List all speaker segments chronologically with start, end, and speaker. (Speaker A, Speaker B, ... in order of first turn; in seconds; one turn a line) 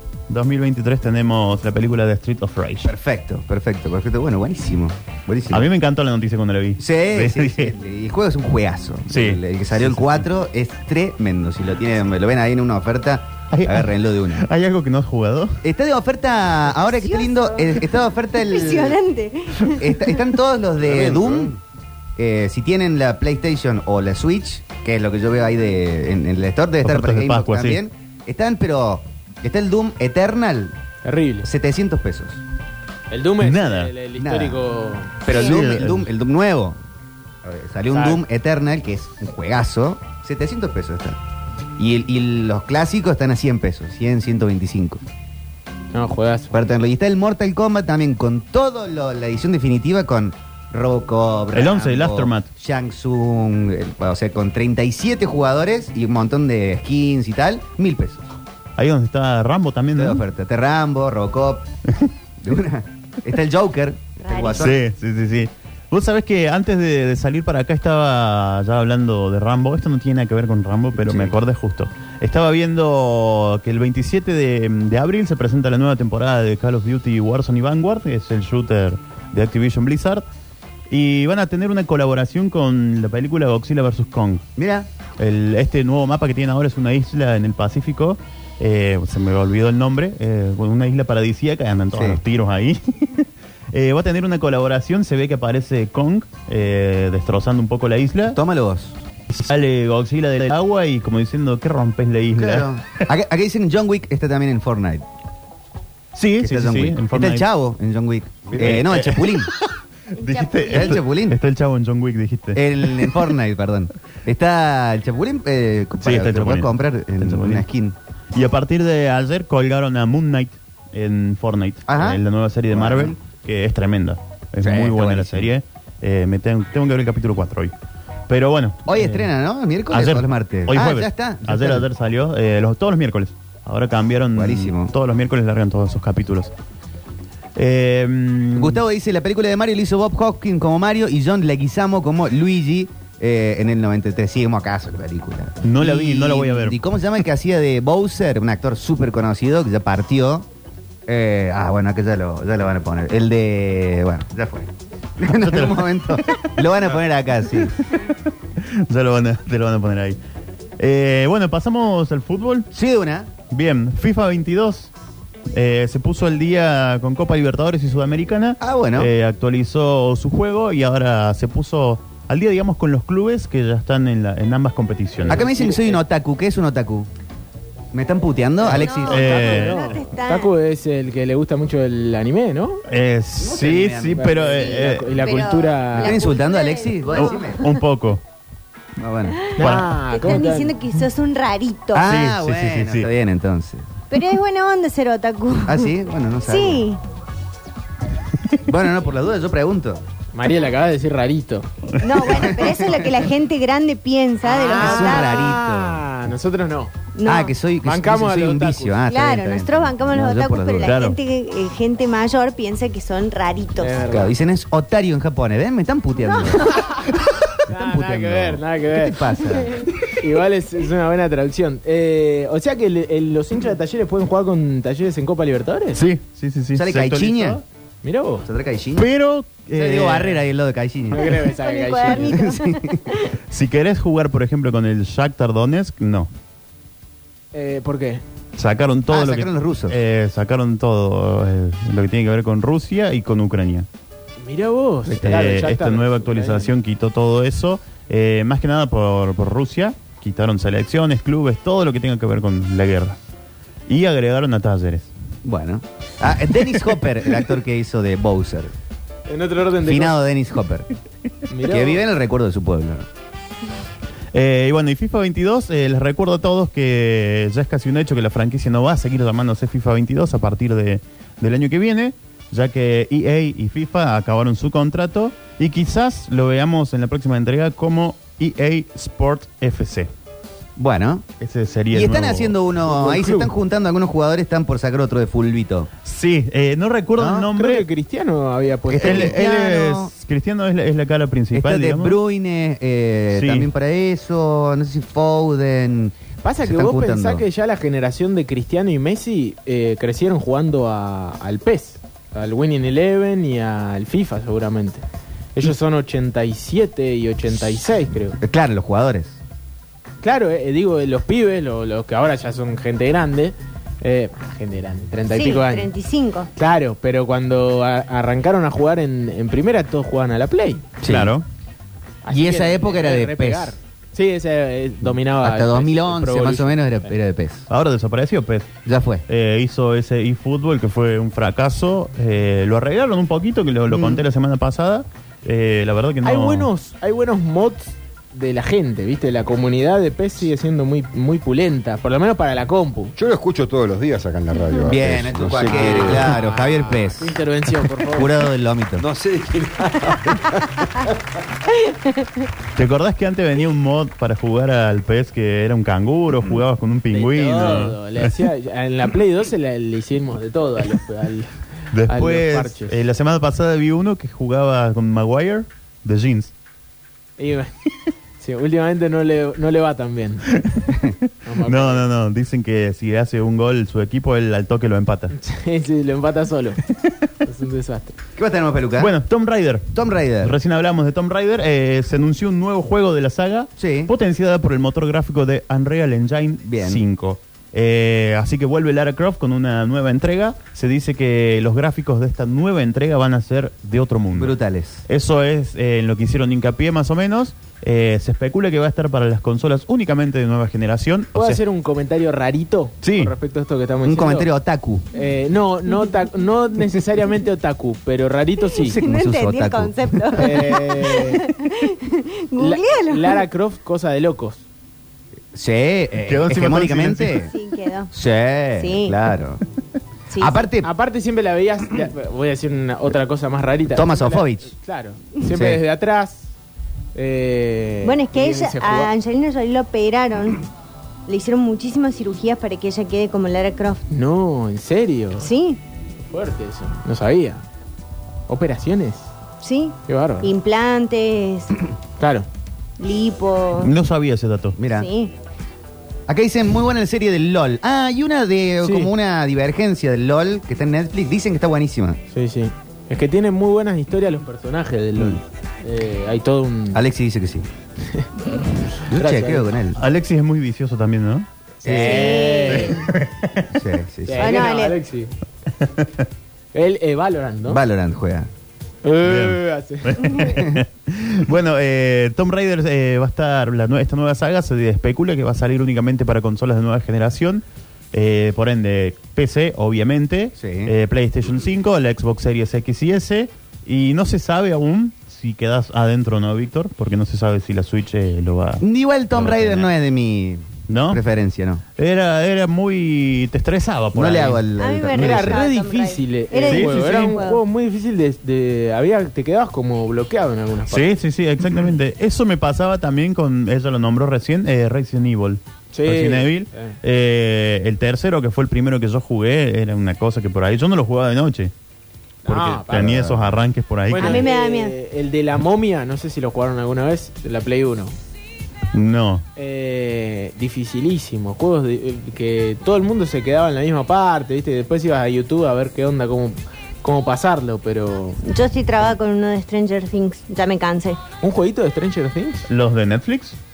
Speaker A: 0.3-2.9
Speaker B: 2.8-5.7
Speaker A: 5.5-7.7
Speaker B: 6.8-14.5
Speaker A: 9.1-10.2
Speaker A: 13.5-15.6
Speaker B: 15.6-19.0
Speaker C: 16.8-20.1
Speaker B: 19.6-21.6
Speaker D: 20.8-21.6
Speaker B: 22.2-30.7
Speaker A: 26.8-27.8
Speaker E: 31.0-31.5
Speaker B: 31.4-32.4
Speaker E: 33.1-35.2
Speaker A: 33.4-33.9
Speaker B: 34.2-34.6
Speaker B: 35.2-36.8
Speaker A: 35.3-36.1
Speaker C: 35.3-35.6
Speaker B: 37.4-41.2
Speaker E: 37.9-38.2
Speaker B: 41.8-45.0
Speaker E: 45.9-46.5
Speaker B: 46.5-58.2
Speaker A: 51.5-52.5
Speaker A: 58.8-60.2
Speaker B: 59.9-61.7
Speaker B: 62.4-64.8
Speaker C: 64.2-64.7
Speaker A: 64.6-80.2
Speaker B: 70.9-71.4
Speaker A: 80.9-84.4
Speaker B: 84.6-84.9
Speaker A: 85.2-98.4
Speaker B: 91.9-92.2
Speaker B: 98.3-99.0
Speaker A: 99.3-103.0
Speaker B: 102.4-105.0
Speaker A: 106.1-107.5
Speaker B: 106.4-109.5
Speaker D: 108.5-108.8
Speaker A: 108.6-113.2
Speaker C: 110.2-111.0
Speaker B: 110.6-111.4
Speaker B: 112.5-118.0
Speaker A: 116.0-117.6
Speaker A: 118.3-127.7
Speaker B: 121.9-123.2
Speaker B: 124.6-125.5
Speaker A: 128.3-129.3
Speaker B: 128.9-131.9
Speaker A: 129.9-136.5
Speaker B: 134.3-134.9
Speaker A: 137.6-138.8
Speaker B: 138.6-150.5
Speaker A: 145.6-146.8
Speaker B: 151.1-157.8
Speaker A: 155.3-156.5
Speaker A: 158.6-160.2
Speaker A: 160.8-162.7
Speaker B: 162.7-163.3
Speaker A: 163.5-164.9
Speaker A: 165.5-175.4
Speaker B: 168.6-169.1
Speaker E: 175.2-176.0
Speaker B: 175.3-177.1
Speaker B: 177.9-179.4
Speaker E: 178.7-182.8
Speaker C: 178.7-180.5
Speaker A: 179.1-179.8
Speaker A: 182.9-185.1
Speaker B: 183.4-184.3
Speaker E: 184.2-186.2
Speaker C: 185.1-187.7
Speaker B: 186.0-187.7
Speaker A: 187.1-188.2
Speaker B: 189.0-189.5
Speaker C: 189.4-192.1
Speaker E: 189.6-190.7
Speaker A: 189.6-189.9
Speaker B: 191.9-193.9
Speaker A: 192.1-193.1
Speaker C: 194.1-195.9
Speaker B: 195.6-196.9
Speaker C: 196.4-197.0
Speaker B: 198.6-200.0
Speaker E: 200.3-201.7
Speaker C: 202.0-205.6
Speaker B: 202.3-203.0
Speaker E: 204.4-206.9
Speaker B: 204.7-206.0
Speaker C: 207.1-207.5
Speaker B: 207.2-211.0
Speaker E: 207.8-208.9
Speaker C: 209.1-214.0
Speaker A: 210.8-211.2
Speaker E: 213.8-214.3
Speaker B: 214.1-216.7
Speaker C: 216.3-216.7
Speaker E: 216.7-217.1
Speaker E: 217.7-219.2
Speaker B: 217.7-219.8
Speaker E: 220.1-226.0
Speaker A: 225.9-227.6
Speaker B: 226.7-227.6
Speaker E: 228.0-228.4
Speaker B: 228.4-229.1
Speaker A: 229.0-230.4
Speaker B: 229.7-231.4
Speaker E: 231.1-232.4
Speaker C: 231.3-233.3
Speaker B: 232.1-233.1
Speaker A: 233.5-236.3
Speaker E: 237.5-238.2
Speaker A: 238.6-243.9
Speaker B: 239.1-240.0
Speaker E: 244.4-246.7
Speaker B: 245.2-245.4
Speaker A: 245.2-253.2
Speaker A: 253.9-255.1
Speaker B: 255.4-258.7
Speaker E: 259.3-260.2
Speaker B: 259.8-260.9
Speaker E: 261.5-262.0
Speaker B: 261.6-263.1
Speaker A: 264.3-280.1
Speaker B: 280.8-281.2
Speaker A: 281.4-282.6
Speaker B: 281.9-285.9
Speaker E: 282.9-283.5
Speaker A: 286.1-287.9
Speaker B: 287.2-287.5
Speaker E: 287.5-289.4
Speaker B: 288.9-290.1
Speaker A: 289.0-292.2
Speaker B: 291.5-297.4
Speaker A: 293.3-293.7
Speaker E: 296.4-305.0
Speaker E: 305.6-308.4
Speaker B: 308.4-309.4
Speaker E: 310.2-315.9
Speaker C: 315.3-316.5
Speaker E: 316.6-320.9
Speaker B: 321.0-321.3
Speaker A: 321.1-321.4
Speaker E: 322.2-327.1
Speaker B: 322.3-323.7
Speaker B: 325.4-327.7
Speaker A: 327.7-328.7
Speaker B: 328.9-329.2
Speaker A: 329.3-336.7
Speaker B: 333.9-334.2
Speaker E: 336.2-343.1
Speaker D: 343.2-346.4
Speaker B: 344.9-347.4
Speaker E: 345.6-348.4
Speaker B: 348.1-349.1
Speaker D: 349.0-351.1
Speaker A: 352.8-358.3
Speaker E: 357.1-363.0
Speaker A: 361.9-366.5
Speaker E: 367.4-367.7
Speaker E: 368.4-370.5
Speaker A: 370.6-375.3
Speaker E: 371.4-372.1
Speaker E: 375.3-376.8
Speaker E: 377.4-378.1
Speaker B: 378.4-379.1
Speaker A: 379.0-401.6
Speaker B: 379.9-380.6
Speaker B: 383.8-384.1
Speaker B: 386.6-387.0
Speaker B: 394.3-395.0
Speaker E: 401.4-404.5
Speaker A: 403.0-403.3
Speaker B: 404.0-405.1
Speaker E: 405.1-409.0
Speaker C: 408.8-413.4
Speaker B: 408.8-410.5
Speaker E: 410.4-411.4
Speaker E: 412.6-414.6
Speaker B: 415.5-417.5
Speaker A: 416.2-417.4
Speaker C: 417.5-418.1
Speaker B: 418.1-419.6
Speaker C: 418.8-419.1
Speaker C: 420.3-420.6
Speaker B: 420.4-420.9
Speaker E: 420.8-426.5
Speaker B: 423.9-424.7
Speaker B: 425.5-425.8
Speaker E: 427.1-429.1
Speaker C: 428.0-430.7
Speaker C: 431.3-434.1
Speaker E: 434.1-435.5
Speaker C: 435.4-435.8
Speaker E: 436.3-437.6
Speaker E: 438.5-439.3
Speaker C: 439.6-441.8
Speaker E: 440.1-440.5
Speaker E: 442.2-442.5
Speaker C: 443.0-443.9
Speaker A: 443.8-444.8
Speaker B: 444.8-445.1
Speaker C: 444.9-445.3
Speaker B: 446.3-452.2
Speaker E: 448.8-449.1
Speaker E: 452.3-457.0
Speaker B: 456.9-457.7
Speaker E: 459.0-459.7
Speaker B: 459.1-460.0
Speaker A: 459.9-461.4
Speaker E: 461.8-463.1
Speaker B: 461.8-462.4
Speaker C: 461.9-463.1
Speaker A: 462.7-463.7
Speaker B: 463.7-464.7
Speaker E: 464.3-465.3
Speaker C: 464.4-464.9
Speaker A: 465.8-466.1
Speaker E: 466.7-467.8
Speaker B: 467.7-468.5
Speaker E: 469.0-470.4
Speaker A: 469.2-489.9
Speaker C: 470.2-470.6
Speaker B: 470.5-470.8
Speaker B: 480.6-480.9
Speaker B: 488.8-491.8
Speaker A: 490.9-491.2
Speaker A: 492.0-494.6
Speaker B: 494.1-495.6
Speaker C: 494.8-497.6
Speaker E: 495.1-501.1
Speaker A: 496.7-497.4
Speaker A: 500.9-511.7
Speaker E: 505.9-506.9
Speaker E: 512.4-513.5
Speaker A: 512.5-514.5
Speaker B: 513.0-513.3
Speaker E: 514.1-518.1
Speaker C: 514.1-514.9
Speaker A: 518.9-519.4
Speaker E: 519.6-528.4
Speaker C: 528.4-531.2
Speaker E: 531.4-532.7
Speaker A: 532.7-533.6